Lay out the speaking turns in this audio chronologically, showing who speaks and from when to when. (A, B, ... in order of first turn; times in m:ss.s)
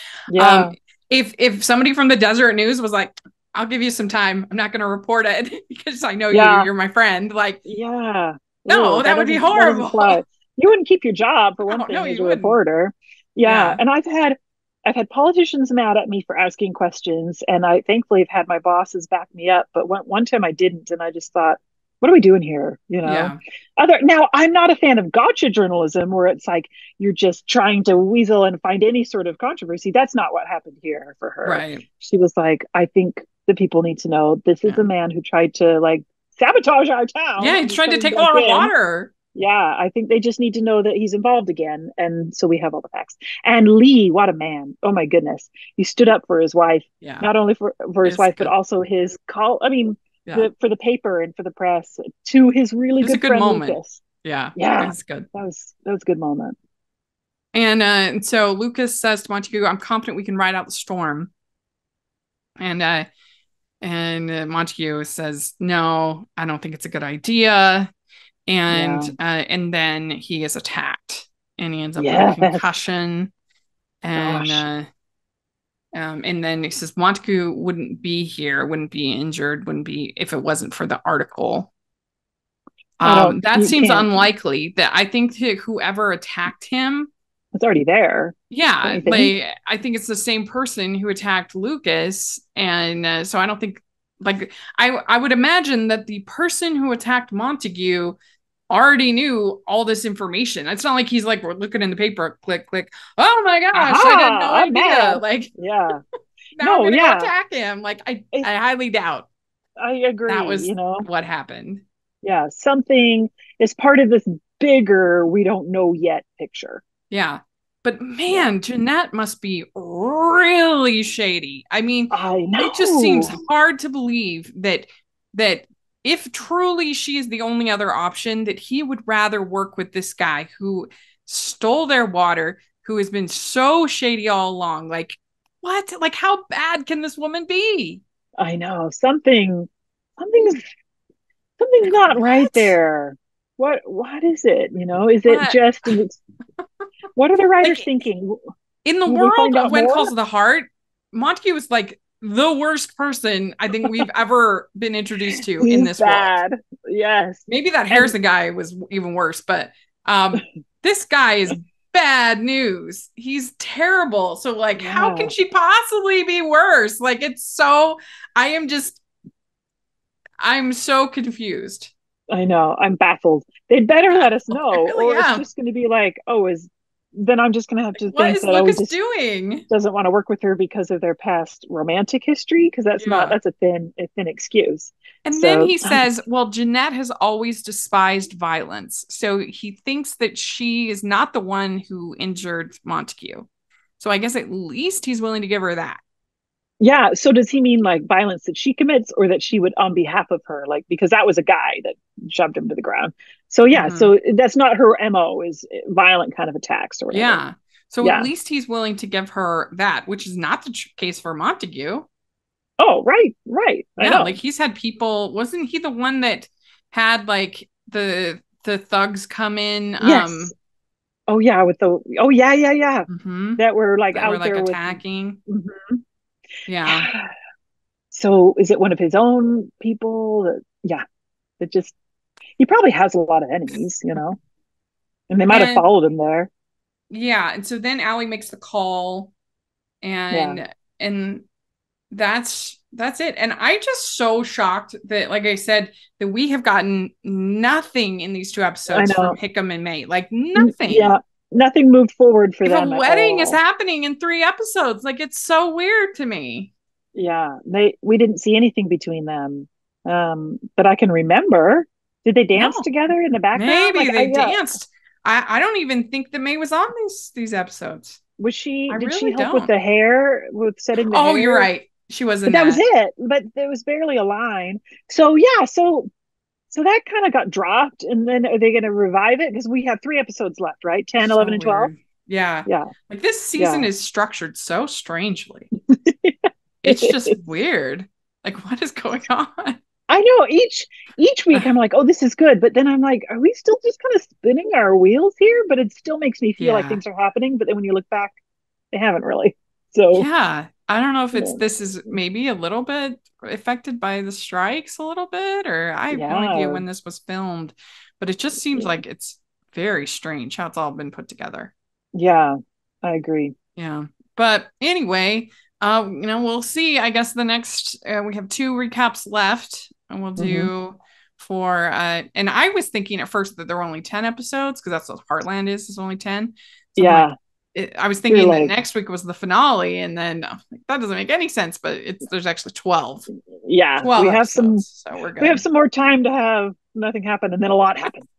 0:00.3-0:00.7 A
0:00.3-0:07.6 B
0:06.3-0:06.7 A
0:07.6-0:38.7 A
0:08.7-0:10.2 B
0:11.7-0:12.6 B
0:13.4-0:13.8 B
0:23.0-0:23.4 B
0:31.4-0:31.8 B
0:37.4-0:39.1 B
0:39.3-0:54.0 A
0:48.0-0:48.5 B
0:53.0-0:55.3 B
0:54.6-0:56.6 A
0:57.5-1:01.3 B
1:02.6-1:03.1 B
1:03.8-1:07.9 B
1:08.5-1:13.3 B
1:08.7-1:09.1 A
1:12.0-1:12.7 A
1:14.0-1:14.9 B
1:14.2-1:14.6 A
1:15.9-1:21.7 B
1:23.0-1:27.1 B
1:23.0-1:24.3 A
1:27.5-1:29.3 A
1:28.5-1:38.2 B
1:38.7-1:45.5 B
1:43.7-1:46.0 A
1:46.6-1:49.3 B
1:46.6-1:47.3 A
1:49.8-1:51.1 A
1:50.3-1:51.8 B
1:52.2-1:56.8 A
1:57.1-2:18.0 B
2:02.1-2:03.4 A
2:18.4-2:20.6 A
2:21.6-2:26.2 A
2:22.1-2:22.7 B
2:25.3-2:25.6 B
2:27.2-2:28.4 A
2:27.6-2:27.9 B
2:28.8-2:36.4 B
2:29.1-2:30.1 A
2:35.6-2:38.1 A
2:37.5-2:49.0 B
2:44.8-2:45.3 A
2:50.4-2:51.9 B
2:52.3-2:58.9 A
2:54.1-2:55.4 B
2:58.1-2:59.6 B
2:59.7-3:06.0 A
3:03.0-3:03.4 B
3:05.2-3:13.5 B
3:14.0-3:16.0 B
3:16.8-3:27.4 A
3:23.7-3:24.1 B
3:27.1-3:32.1 B
3:28.0-3:28.3 A
3:32.8-3:34.4 A
3:34.0-3:40.5 B
3:40.0-3:40.5 A
3:41.3-3:46.0 A
3:43.1-3:43.6 B
3:44.1-3:45.4 B
3:46.7-3:47.1 B
3:46.8-3:47.3 A
3:48.1-3:51.0 A
3:51.6-3:52.0 A
3:52.6-3:54.4 A
3:55.3-3:56.5 A
3:55.5-3:55.8 B
3:57.1-3:59.3 B
4:00.0-4:01.4 B
4:00.3-4:00.6 A
4:02.1-4:11.1 B
4:08.9-4:09.4 A
4:10.6-4:13.6 A
4:12.6-4:16.7 B
4:17.2-4:24.6 A
4:22.6-4:22.9 B
4:23.6-4:28.2 B
4:28.4-4:31.7 A
4:28.9-4:29.7 B
4:31.0-4:32.8 B
4:32.5-4:36.1 A
4:36.7-4:41.9 A
4:41.2-4:45.7 B
4:42.7-4:42.9 A
4:43.6-4:43.9 A
4:45.9-4:47.4 A
4:46.8-4:49.8 B
4:50.1-4:58.4 A
4:56.6-4:57.0 B
4:58.9-5:00.3 A
5:00.2-5:11.7 B
5:01.4-5:01.6 A
5:06.1-5:06.8 A
5:12.1-5:13.5 A
5:13.8-5:33.3 B
5:20.4-5:20.7 A
5:27.0-5:27.3 A
5:28.3-5:28.8 A
5:33.6-5:34.8 A
5:34.0-5:35.6 B
5:35.4-5:38.3 A